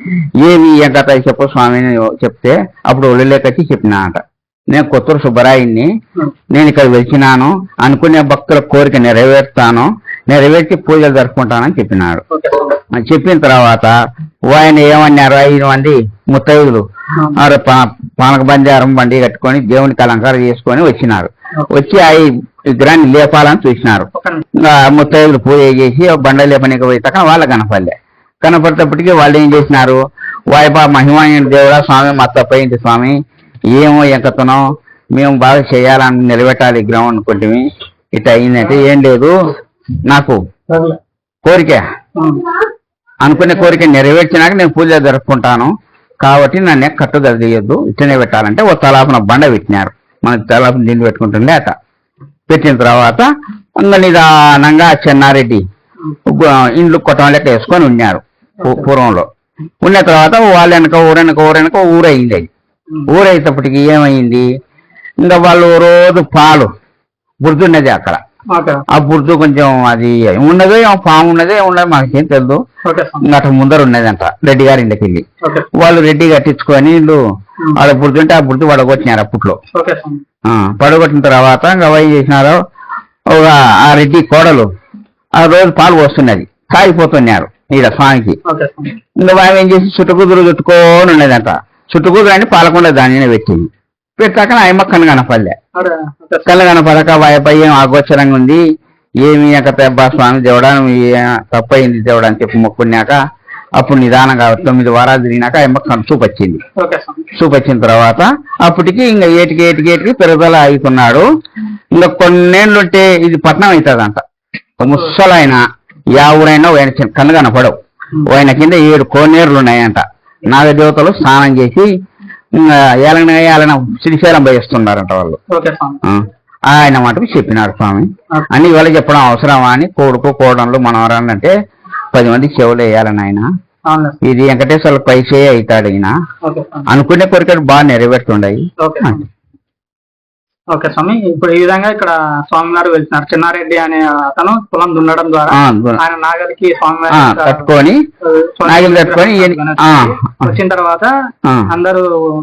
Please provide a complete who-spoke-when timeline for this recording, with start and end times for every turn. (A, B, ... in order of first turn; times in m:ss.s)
0:00.4-0:05.9 A
0:06.5-0:12.2 A
0:12.3-0:12.7 B
0:12.9-0:13.9 A
0:14.5-0:16.8 A
0:17.4-0:33.2 A
0:24.2-0:24.4 B
0:33.7-0:39.3 A
0:40.1-0:40.4 A
0:40.7-0:41.0 B
0:41.4-0:41.8 A
0:43.2-0:51.7 A
0:52.5-0:55.6 A
0:56.3-0:59.3 A
0:59.8-1:02.5 A
1:03.1-1:04.4 A
1:05.2-1:06.7 A
1:07.4-1:08.2 A
1:08.5-1:08.8 B
1:08.9-1:12.6 A
1:12.8-1:13.2 B
1:13.2-1:15.2 A
1:15.8-1:17.2 A
1:17.8-1:19.6 A
1:19.7-1:20.2 B
1:20.5-1:22.6 A
1:23.3-1:24.7 A
1:25.4-1:28.4 A
1:28.5-1:28.9 B
1:29.2-1:35.6 A
1:35.8-1:36.6 B
1:36.4-1:38.6 A
1:39.2-1:43.2 A
1:43.8-1:46.6 A
1:46.8-1:47.2 B
1:47.4-1:51.2 A
1:51.9-1:54.2 A
1:54.8-2:01.9 A
2:02.6-2:05.4 A
2:05.5-2:06.0 B
2:06.0-2:11.5 A
2:12.1-2:13.5 A
2:13.9-2:14.1 B
2:14.2-2:16.1 A
2:16.4-2:16.8 B
2:16.9-2:19.2 A
2:18.8-2:19.2 B
2:20.7-2:27.6 B
2:25.5-2:26.0 A
2:27.1-2:28.0 A
2:28.2-2:29.8 B
2:28.7-2:30.5 A
2:30.4-2:31.1 B
2:31.7-2:32.0 B